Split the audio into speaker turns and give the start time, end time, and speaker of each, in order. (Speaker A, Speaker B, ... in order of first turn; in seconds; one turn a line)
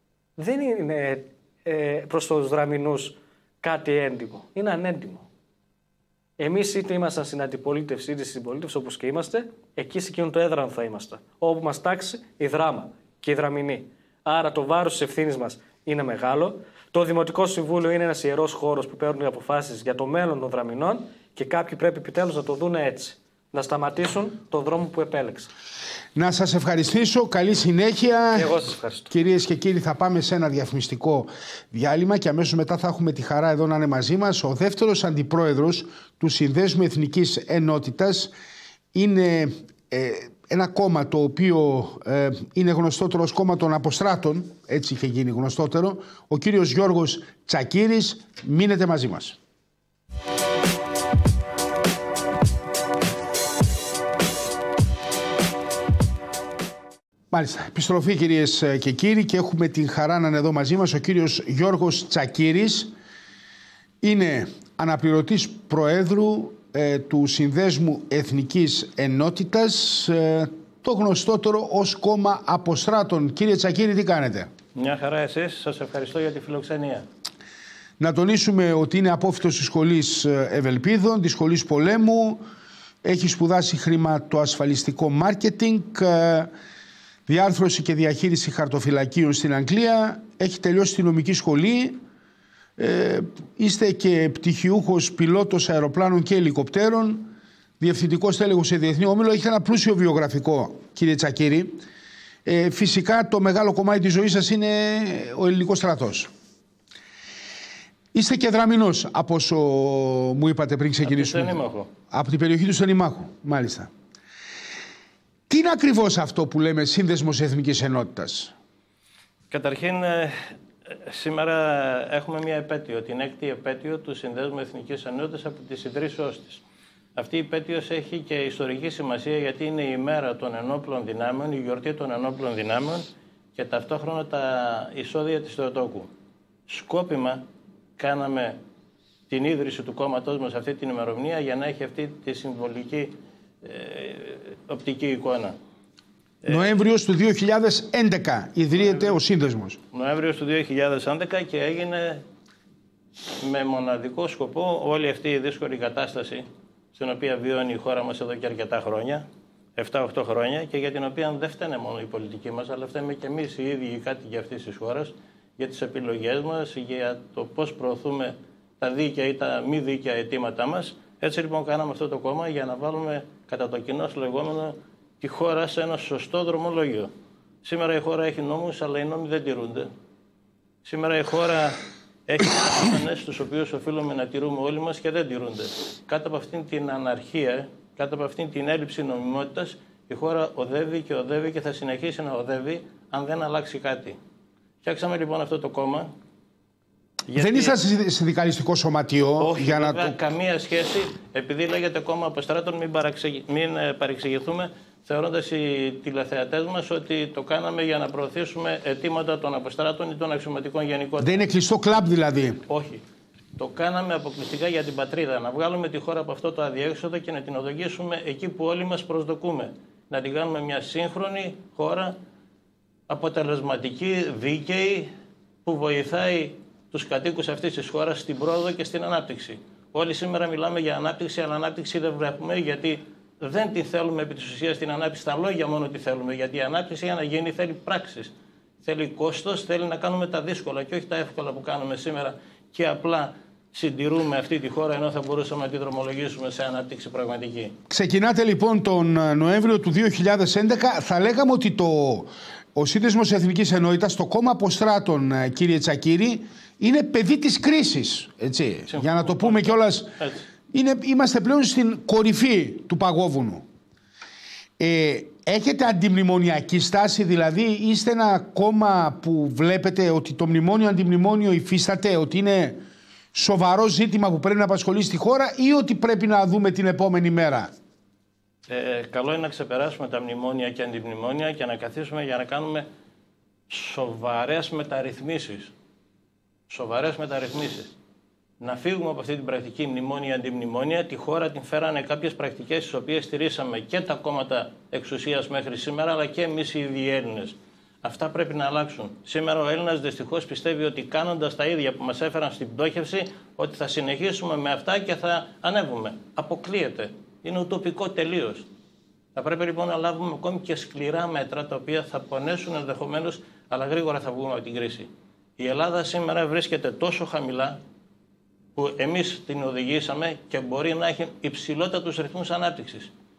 Speaker A: 0.4-5.3
Speaker A: 6.4-25.5
Speaker B: 26.1-28.6
Speaker A: 28.3-29.1
Speaker B: 29.1-38.3
Speaker B: 38.9-49.4
Speaker B: 57.3-62.9
Speaker B: 64.0-74.5
Speaker C: 74.8-77.1
Speaker B: 78.0-82.4
Speaker B: 83.0-86.5
Speaker B: 87.3-92.0
Speaker B: 92.8-101.8
Speaker B: 102.5-106.3
Speaker B: 108.1-111.6
Speaker C: 111.0-111.9
Speaker B: 112.1-113.9
Speaker B: 115.5-118.5
Speaker C: 119.5-120.3
Speaker C: 120.9-126.6
Speaker C: 127.2-136.1
Speaker C: 136.7-137.4
Speaker C: 138.0-138.6
Speaker C: 139.3-145.6
Speaker B: 146.5-149.8
Speaker C: 148.8-149.2
Speaker C: 149.9-152.2
Speaker C: 153.4-177.1
Speaker C: 177.6-179.9
Speaker C: 180.8-194.2
Speaker C: 194.8-196.1
Speaker C: 197.3-197.8
Speaker B: 197.4-200.2
Speaker C: 199.4-211.5
Speaker B: 211.2-212.6
Speaker C: 212.7-213.0
Speaker C: 213.6-222.2
Speaker C: 223.1-225.1
Speaker C: 225.7-238.3
Speaker C: 238.8-247.8
Speaker B: 247.9-260.1
Speaker C: 258.9-260.4
Speaker B: 260.7-263.6
Speaker B: 264.8-272.8
Speaker B: 273.3-277.7
Speaker C: 278.7-282.9
Speaker C: 283.7-285.7
Speaker C: 286.7-287.9
Speaker C: 288.6-308.7
Speaker C: 309.4-317.8
Speaker C: 318.8-323.1